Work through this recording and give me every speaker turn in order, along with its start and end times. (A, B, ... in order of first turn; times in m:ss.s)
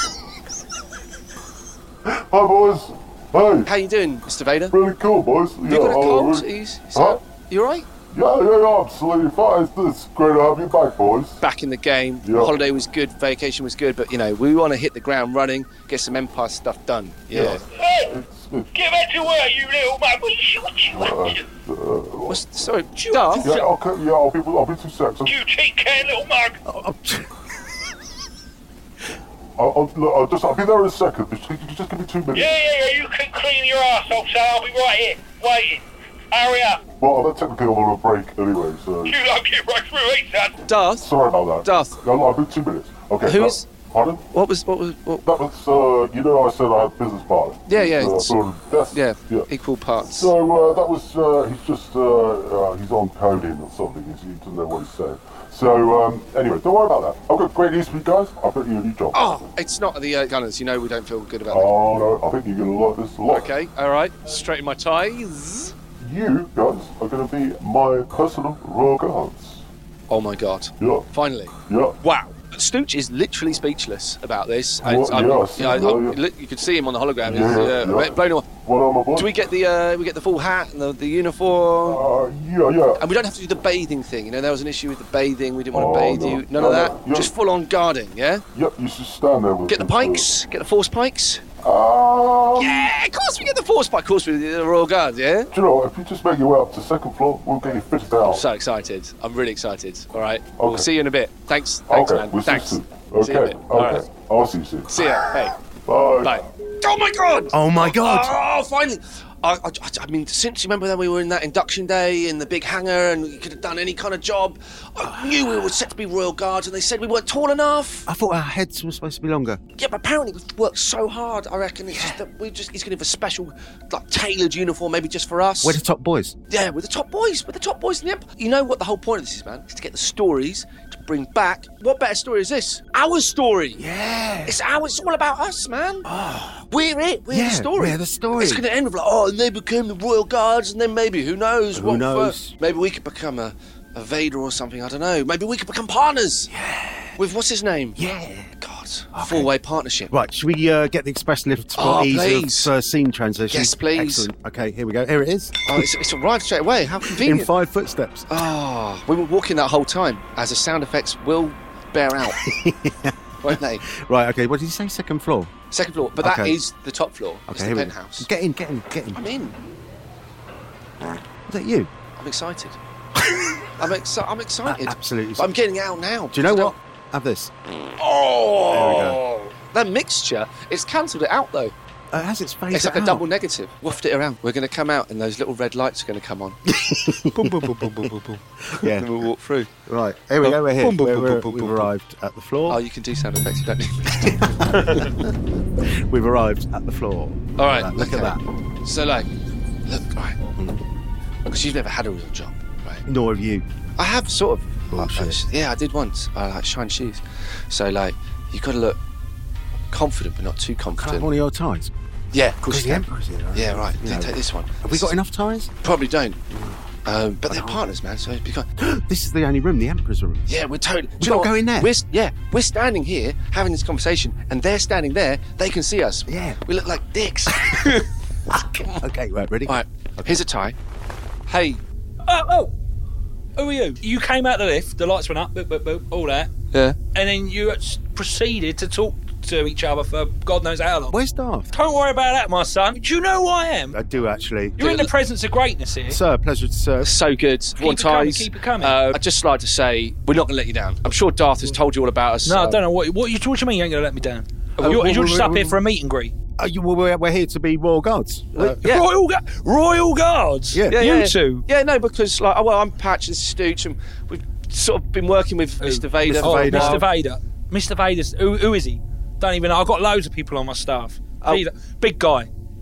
0:02.0-0:03.7 A
0:03.7-0:04.8 B
0:04.7-0:07.2 A
0:05.6-0:07.9 B
0:08.1-0:11.4 A
0:11.4-0:17.6 B
0:12.2-0:12.6 A
0:17.3-0:18.7 A
0:17.7-0:18.2 C
0:18.7-0:21.4 C
0:20.9-0:22.4 A
0:22.3-0:23.5 B
0:23.0-0:23.7 D
0:23.4-0:25.3 A
0:25.3-0:26.6 C
0:26.6-0:27.7 E
0:29.6-0:32.5 A
0:32.3-0:36.8 C
0:37.0-0:39.2 A
0:39.0-0:40.6 C
0:40.7-0:41.1 B
0:41.0-0:44.2 A
0:41.6-0:42.0 B
0:43.2-0:43.7 B
0:44.3-0:45.3 B
0:45.2-0:49.5 A
0:47.7-0:48.4 B
0:48.9-0:50.3 B
0:50.0-0:59.2 A
0:59.1-1:01.7 B
1:01.5-1:03.5 A
1:03.3-1:05.8 B
1:06.0-1:09.7 A
1:10.1-1:18.5 B
1:10.8-1:11.0 A
1:11.7-1:12.0 A
1:14.8-1:16.2 A
1:17.2-1:19.3 A
1:19.2-1:22.0 B
1:21.8-1:23.0 A
1:23.0-1:28.4 B
1:25.7-1:27.3 A
1:28.5-1:30.3 A
1:29.7-1:31.4 B
1:31.6-1:32.9 A
1:32.6-1:35.5 B
1:35.5-1:38.4 A
1:38.3-1:44.1 B
1:40.6-1:40.9 A
1:41.9-1:45.0 A
1:44.9-1:45.6 B
1:45.9-1:46.4 A
1:46.2-1:58.1 B
1:47.5-1:48.4 E
1:58.1-1:59.6 E
1:59.8-2:05.8 B
2:01.9-2:02.2 E
2:05.6-2:06.4 E
2:06.5-2:13.8 B
2:13.8-2:14.6 E
2:14.4-2:16.1 B
2:16.0-2:16.6 E
2:16.7-2:26.5 B
2:17.3-2:18.6 E
2:21.7-2:22.6 E
2:26.5-2:27.2 E
2:27.2-2:28.0 B
2:28.0-2:28.5 E
2:28.6-2:30.1 B
2:29.1-2:29.5 E
2:30.1-2:35.9 E
2:31.8-2:32.7 B
2:33.5-2:34.3 B
2:35.7-2:37.5 B
2:37.0-2:38.4 E
2:38.3-2:42.4 B
2:42.2-2:45.5 E
2:43.4-2:43.8 B
2:45.7-2:48.3 B
2:46.2-2:46.6 E
2:47.5-2:49.3 E
2:49.1-2:49.6 B
2:51.5-2:51.9 E
2:52.2-2:52.8 B
2:53.2-2:53.7 E
2:53.7-2:56.7 B
2:54.6-2:55.5 E
2:56.3-2:57.5 E
2:57.9-3:01.7 B
2:58.7-2:59.2 E
2:58.8-2:59.1 A
3:02.1-3:03.3 E
3:02.7-3:06.6 B
3:06.6-3:09.3 E
3:08.7-3:09.7 B
3:09.9-3:12.8 E
3:12.7-3:15.1 B
3:14.1-3:18.4 E
3:17.6-3:19.3 B
3:19.9-3:20.4 B
3:20.6-3:20.8 E
3:21.5-3:23.0 B
3:23.0-3:23.7 E
3:24.0-3:29.0 B
3:24.9-3:25.4 E
3:29.9-3:31.3 B
3:31.0-3:31.9 E
3:32.3-3:35.1 B
3:32.6-3:35.7 E
3:35.8-3:36.4 B
3:36.5-3:36.8 E
3:37.0-3:38.7 B
3:37.5-3:37.8 E
3:38.8-3:40.5 E
3:40.5-3:47.9 B
3:41.2-3:41.9 E
3:46.3-3:46.6 E
3:49.0-3:50.4 E
3:49.7-3:50.8 B
3:51.5-3:51.8 B
3:52.2-3:52.7 D
3:53.6-3:56.5 D
3:56.7-3:57.0 B
3:57.1-4:01.1 D
4:01.1-4:01.7 E
4:01.7-4:04.0 D
4:03.9-4:05.1 E
4:04.8-4:06.2 D
4:06.1-4:07.2 E
4:07.0-4:12.8 B
4:07.8-4:09.2 D
4:12.4-4:16.3 D
4:14.8-4:15.3 B
4:14.8-4:15.8 E
4:16.6-4:18.8 E
4:18.6-4:19.1 B
4:18.7-4:21.7 D
4:20.9-4:27.0 B
4:25.8-4:32.5 D
4:26.3-4:27.1 E